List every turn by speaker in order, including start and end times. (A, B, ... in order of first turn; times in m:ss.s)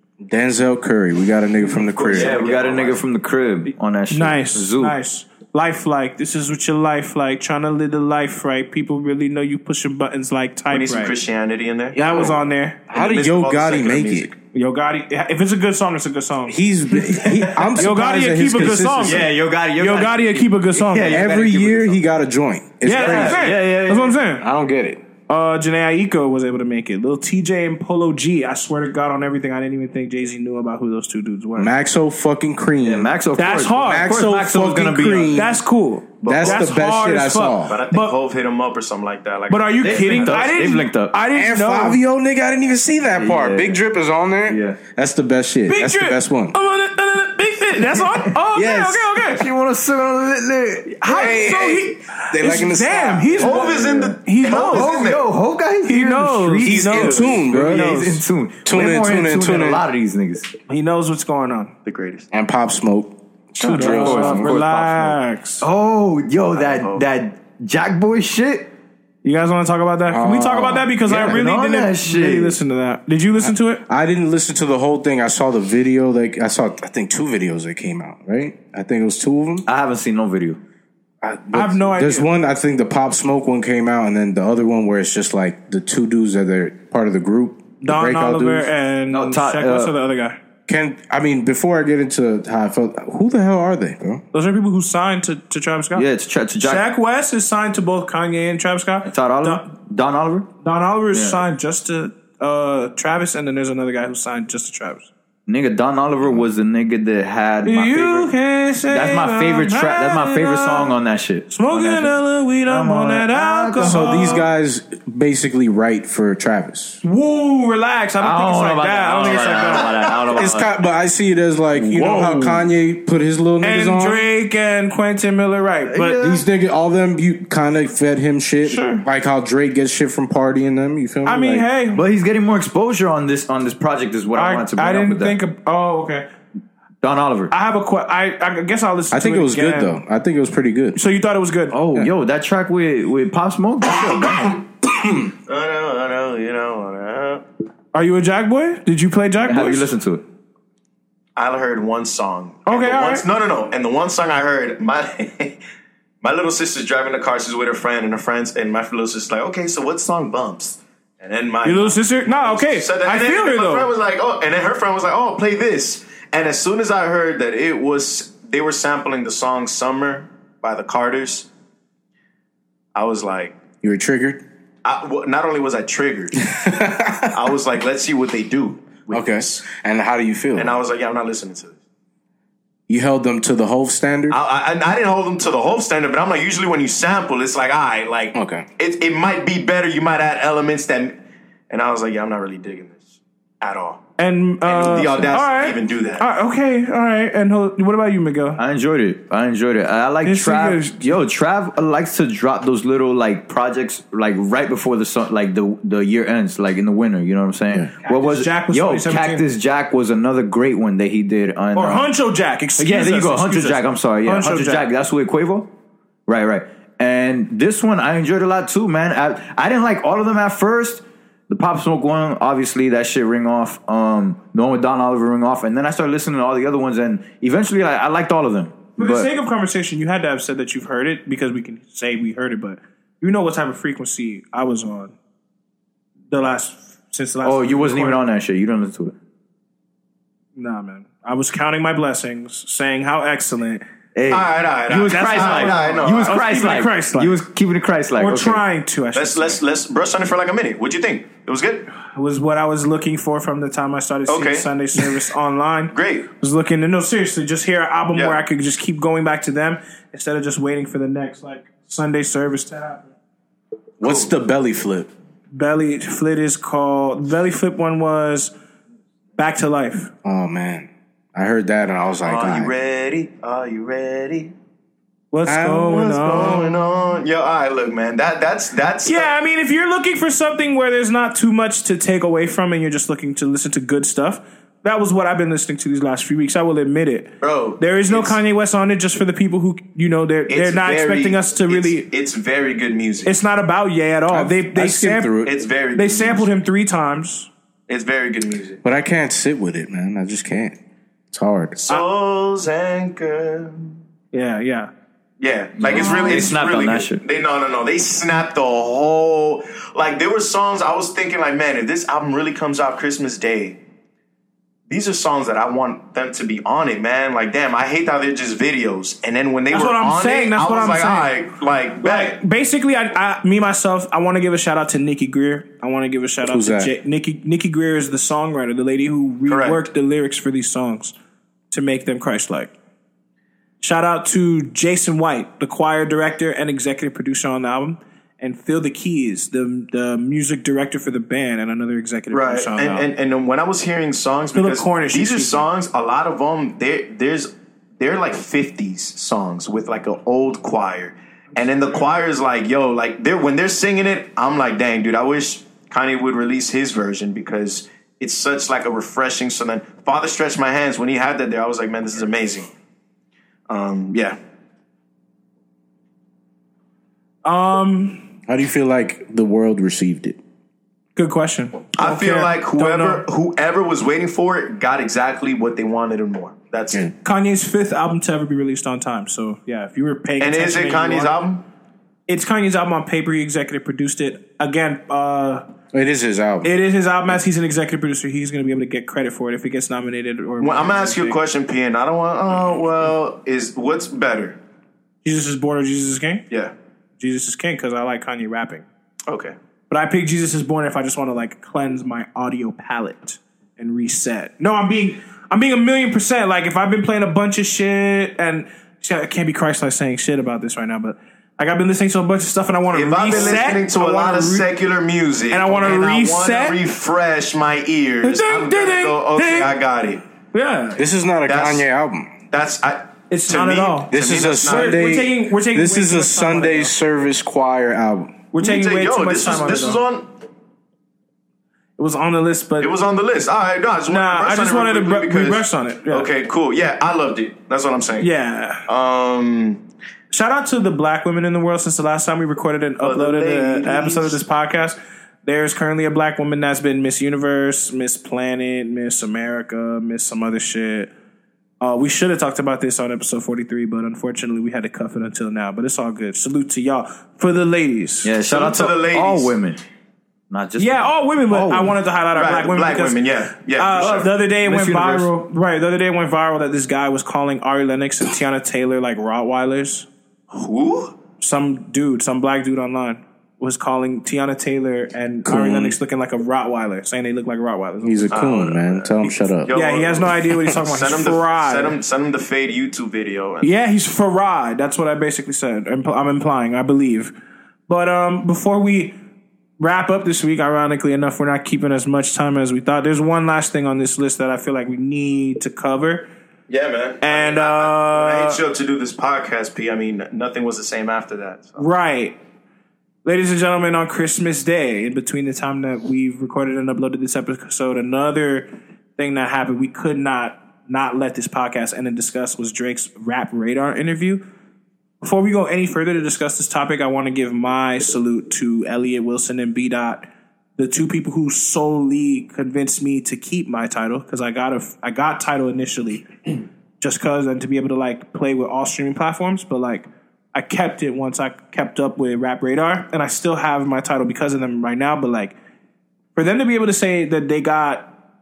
0:00.2-0:02.4 A
0:01.8-0:05.0 B
0:02.0-0:03.0 C
0:04.1-0:11.2 D
0:10.7-0:12.0 C
0:11.9-0:14.3 A
0:12.0-0:12.9 D
0:12.9-0:14.3 C
0:14.5-0:21.2 D
0:16.5-0:19.3 A
0:19.0-0:22.0 B
0:21.1-0:23.5 A
0:22.8-0:24.5 D
0:22.9-0:24.2 B
0:24.4-0:25.0 A
0:25.3-0:31.7 D
0:31.6-0:33.1 A
0:32.8-0:35.5 B
0:33.4-0:34.4 D
0:33.8-0:35.6 A
0:35.1-0:38.1 D
0:36.2-0:36.7 C
0:36.2-0:37.8 A
0:37.6-0:40.5 C
0:39.5-0:42.0 D
0:39.8-0:41.2 B
0:41.3-0:46.6 A
0:43.2-0:43.8 B
0:44.5-0:44.8 B
0:45.7-0:49.5 D
0:47.9-0:48.3 B
0:48.5-0:49.0 A
0:49.2-0:51.0 B
0:51.0-0:54.9 D
0:51.0-0:53.8 A
0:53.4-0:55.3 C
0:53.6-1:00.5 B
0:55.9-0:58.2 D
0:56.6-0:57.9 A
0:58.6-0:59.8 A
1:00.7-1:01.7 D
1:01.8-1:02.3 C
1:02.3-1:04.5 A
1:03.6-1:05.6 D
1:03.6-1:08.7 B
1:06.5-1:07.0 C
1:09.2-1:13.8 D
1:10.0-1:11.4 A
1:11.2-1:12.6 B
1:13.4-1:19.7 A
1:19.7-1:20.6 B
1:21.2-1:28.7 A
1:21.5-1:22.3 D
1:27.8-1:30.4 D
1:29.1-1:30.0 B
1:30.7-1:34.2 A
1:34.3-1:36.1 D
1:36.0-1:36.9 B
1:36.6-1:39.6 D
1:39.0-1:40.5 B
1:40.6-1:45.1 D
1:41.1-1:41.4 B
1:45.5-1:48.3 B
1:47.7-1:51.0 D
1:48.9-1:54.4 B
1:51.5-1:54.5 D
1:53.8-1:57.0 A
1:57.0-2:00.1 D
1:58.2-2:00.7 B
2:00.4-2:04.2 A
2:01.8-2:02.6 B
2:03.6-2:06.2 D
2:05.9-2:06.4 B
2:06.2-2:11.7 A
2:08.6-2:09.1 D
2:11.2-2:12.0 D
2:11.9-2:15.4 B
2:14.4-2:16.3 D
2:17.0-2:17.5 B
2:17.5-2:20.0 D
2:19.1-2:21.0 A
2:21.0-2:21.8 D
2:21.7-2:24.6 B
2:25.0-2:25.3 A
2:25.5-2:27.4 C
2:27.9-2:29.9 D
2:29.4-2:30.2 B
2:31.4-2:35.6 C
2:32.7-2:33.2 D
2:36.2-2:51.5 C
2:41.6-2:43.9 D
2:53.0-2:53.6 C
2:53.8-2:54.4 A
2:54.8-2:56.4 C
2:56.5-2:57.4 A
2:57.3-2:59.6 C
2:59.1-3:00.8 A
3:00.6-3:01.8 C
3:02.9-3:04.4 A
3:04.3-3:11.2 C
3:08.3-3:08.7 A
3:11.7-3:14.0 C
3:14.2-3:18.6 D
3:14.6-3:16.2 C
3:14.9-3:15.3 B
3:18.6-3:32.1 B
3:20.2-3:21.1 D
3:28.0-3:29.4 D
3:31.8-3:34.9 D
3:32.8-3:35.7 B
3:36.3-3:49.3 B
3:49.0-3:55.2 D
3:56.3-3:58.2 D
3:57.4-3:59.2 B
4:00.6-4:03.8 D
4:04.2-4:08.6 B
4:04.3-4:06.4 C
4:05.1-4:07.4 D
4:08.2-4:09.6 D
4:09.1-4:11.9 C
4:12.1-4:23.1 D
4:14.3-4:14.7 C
4:15.9-4:16.3 C
4:18.1-4:18.4 C
4:24.0-4:25.1 A
4:25.5-4:28.5 D
4:29.4-4:30.1 D
4:30.2-4:32.7 A
4:32.2-4:34.5 C
4:35.3-4:36.8 D
4:35.5-4:36.6 A
4:35.8-4:39.3 C
4:39.0-4:52.1 D
4:47.4-4:48.4 C
4:50.5-4:53.3 C
4:53.3-4:55.3 D
4:54.3-4:55.6 A
4:55.4-4:56.5 C
4:56.0-4:57.5 D
4:57.9-4:58.8 C
4:58.8-5:00.8 A
5:01.3-5:01.8 A
5:01.8-5:04.0 C
5:04.3-5:04.9 D
5:05.4-5:13.8 C
5:05.8-5:07.2 B
5:14.9-5:22.4 C
5:19.7-5:21.4 D
5:22.0-5:31.1 D
5:26.4-5:26.9 A
5:29.5-5:29.8 C
5:31.7-5:32.7 D
5:33.8-5:43.1 D
5:42.3-6:02.7 C
5:44.5-5:45.6 D
6:03.7-6:04.4 C
6:07.4-6:08.2 D
6:08.5-6:10.4 A
6:11.2-6:13.2 D
6:12.0-6:17.1 C
6:17.2-6:21.4 D
6:20.4-6:21.6 C
6:22.3-6:25.6 D
6:25.9-6:26.7 A
6:26.6-6:31.4 D
6:30.6-6:34.6 C
6:35.2-6:36.5 D
6:37.2-6:38.9 D
6:39.3-6:39.6 C
6:39.9-6:54.7 D
6:52.9-7:00.2 C
6:55.5-6:56.8 D
6:58.2-6:59.7 D
7:00.5-7:01.0 D
7:01.0-7:02.3 A
7:01.5-7:01.9 C
7:02.5-7:05.1 C
7:03.3-7:06.9 D
7:04.1-7:08.4 A
7:08.5-7:10.0 D
7:08.6-7:10.3 C
7:12.0-7:13.0 D
7:12.8-7:18.3 C
7:14.1-7:16.3 D
7:18.2-7:18.8 D
7:18.9-7:19.8 C
7:20.3-7:31.1 D
7:23.0-7:24.4 C
7:31.8-7:38.4 D
7:38.2-7:39.8 B
7:38.5-7:39.5 C
7:40.5-7:41.1 B
7:40.8-7:43.2 D
7:41.5-7:42.0 A
7:42.3-7:44.3 C
7:43.7-7:50.1 D
7:44.0-7:45.3 B
7:50.5-7:51.2 C
7:51.4-7:58.6 D
7:55.4-7:56.0 A
7:58.0-7:59.7 A
7:58.3-8:03.7 C
7:59.7-8:02.0 D
8:00.5-8:00.8 A
8:03.6-8:07.3 D
8:07.9-8:09.2 D
8:09.8-8:16.3 D
8:16.7-8:21.9 C
8:17.2-8:18.6 D
8:21.8-8:22.4 D
8:23.2-8:34.4 D
8:35.2-8:46.5 D
8:47.0-8:55.6 D
8:56.4-8:58.1 D